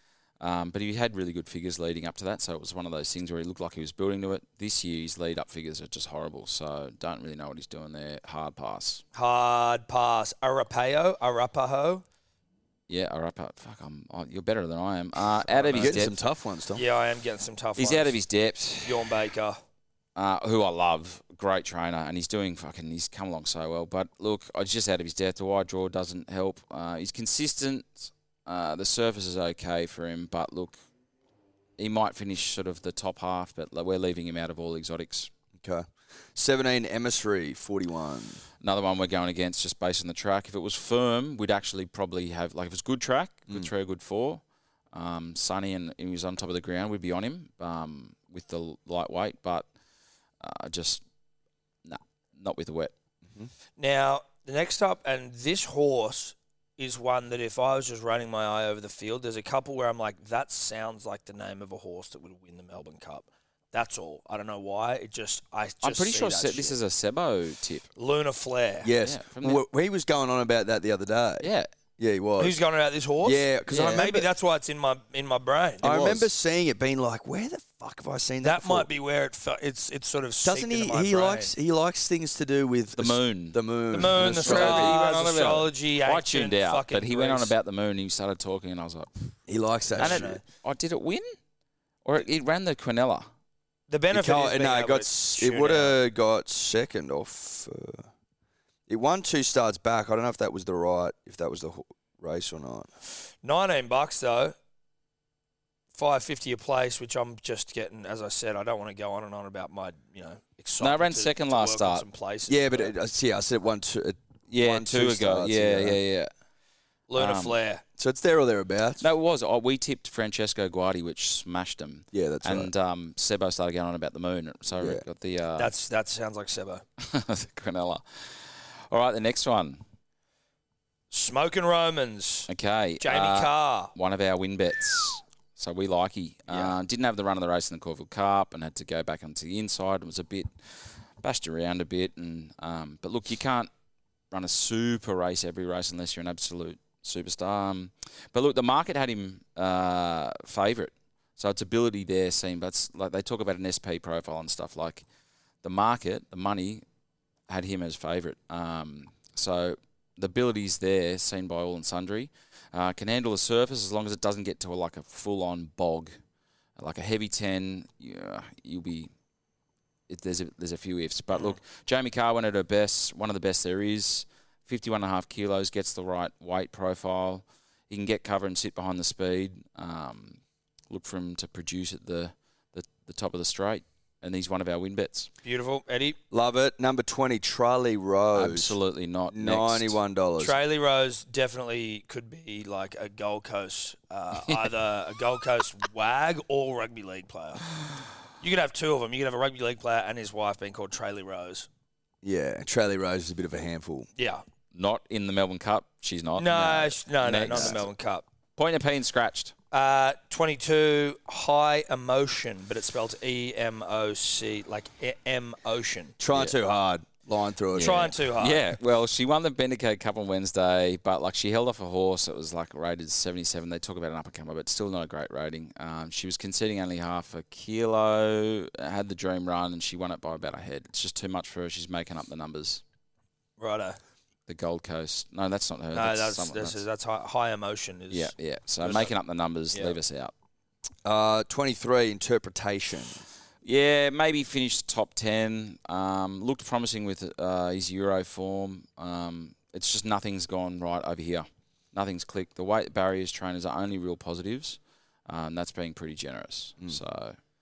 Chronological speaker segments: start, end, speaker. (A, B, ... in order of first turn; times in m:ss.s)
0:00.4-0:09.0 A
0:09.1-0:12.0 B
0:12.9-0:16.2 A
0:15.6-0:16.1 B
0:15.6-0:16.8 C
0:16.7-0:18.1 B
0:17.8-0:19.1 A
0:18.8-0:19.6 B
0:20.2-0:30.7 A
0:31.8-0:35.3 A
0:35.6-0:38.4 C
0:38.6-0:49.6 A
0:50.4-0:51.0 A
0:51.8-0:52.9 A
0:53.8-1:06.8 B
1:05.8-1:07.9 A
1:08.0-1:08.9 B
1:08.8-1:11.5 C
1:09.0-1:09.6 A
1:11.4-1:11.7 A
1:12.0-1:12.6 C
1:12.4-1:16.3 B
1:13.2-1:14.3 C
1:15.8-1:18.9 C
1:18.4-1:21.5 B
1:20.4-1:25.0 C
1:23.0-1:29.1 A
1:23.9-1:27.5 B
1:29.5-1:30.4 C
1:30.0-1:30.4 B
1:30.0-1:31.3 A
1:32.0-1:33.3 A
1:33.9-1:36.0 B
1:34.1-1:38.1 C
1:38.9-1:42.9 C
1:43.4-1:44.6 B
1:45.9-1:52.9 B
1:50.8-1:52.0 A
1:52.5-1:56.0 C
1:54.5-1:56.3 A
1:57.1-1:57.8 B
1:57.2-1:57.6 A
1:58.0-1:59.0 C
1:59.0-2:05.7 A
2:02.1-2:02.7 C
2:04.8-2:05.0 C
2:05.6-2:06.8 B
2:07.0-2:09.8 A
2:11.1-2:12.5 B
2:12.5-2:20.5 A
2:13.0-2:13.9 B
2:16.5-2:16.7 B
2:21.2-2:23.7 A
2:24.3-2:35.0 A
2:35.6-2:36.8 A
2:37.5-2:46.1 A
2:46.8-2:49.1 A
2:50.1-3:00.4 A
3:00.9-3:05.3 A
3:05.4-3:06.2 B
3:06.3-3:08.7 C
3:08.3-3:10.0 A
3:09.3-3:10.5 C
3:10.4-3:17.6 B
3:18.4-3:21.7 B
3:22.2-3:24.1 C
3:24.2-3:24.4 B
3:24.7-3:27.9 A
3:26.4-3:28.2 B
3:27.5-3:27.8 C
3:28.6-3:29.5 A
3:29.7-3:36.1 B
3:36.2-3:38.1 C
3:37.7-3:38.7 B
3:37.8-3:52.8 A
3:53.6-3:54.0 B
3:54.5-3:56.8 A
3:55.9-3:59.1 B
3:58.1-4:00.3 A
4:01.0-4:03.2 C
4:03.6-4:17.4 A